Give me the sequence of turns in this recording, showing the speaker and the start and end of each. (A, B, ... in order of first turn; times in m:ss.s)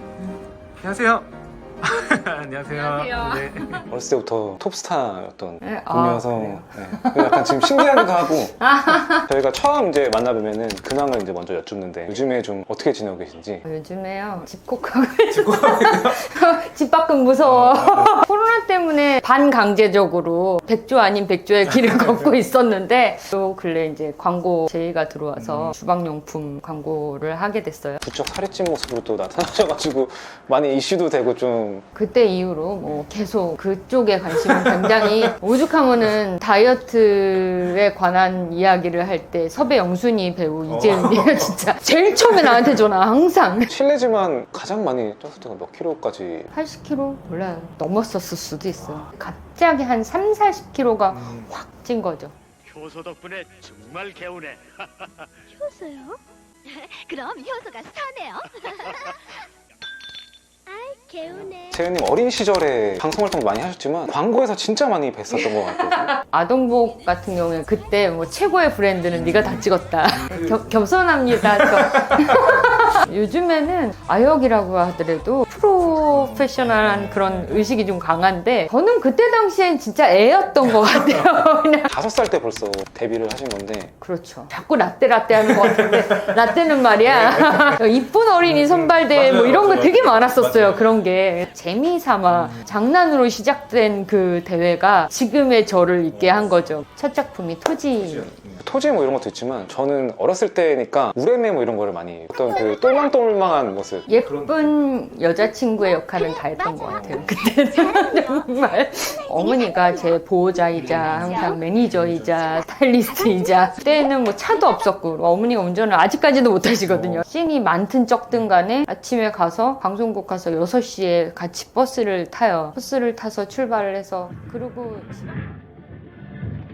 0:00.8-0:01.2 A
0:01.8-0:03.7 A
0:02.6-0:03.8 B
0:03.9-0:13.6 C
0:05.6-0:09.3 B
0:13.6-0:28.0 B
0:15.7-0:16.0 A
0:28.0-0:31.8 C
0:31.9-0:43.7 B
0:43.7-0:46.5 C
0:46.5-0:52.3 B
0:52.7-0:55.1 D
0:55.5-0:59.4 E
1:00.7-1:01.8 E
1:01.7-1:06.2 C
1:06.2-1:21.9 B
1:21.9-1:23.9 C
1:24.0-1:38.4 B
1:29.4-1:29.9 A
1:38.6-1:44.2 C
1:42.4-1:42.8 E
1:44.1-2:05.4 B
1:46.0-1:50.1 E
1:51.1-1:51.6 E
1:53.1-1:54.0 E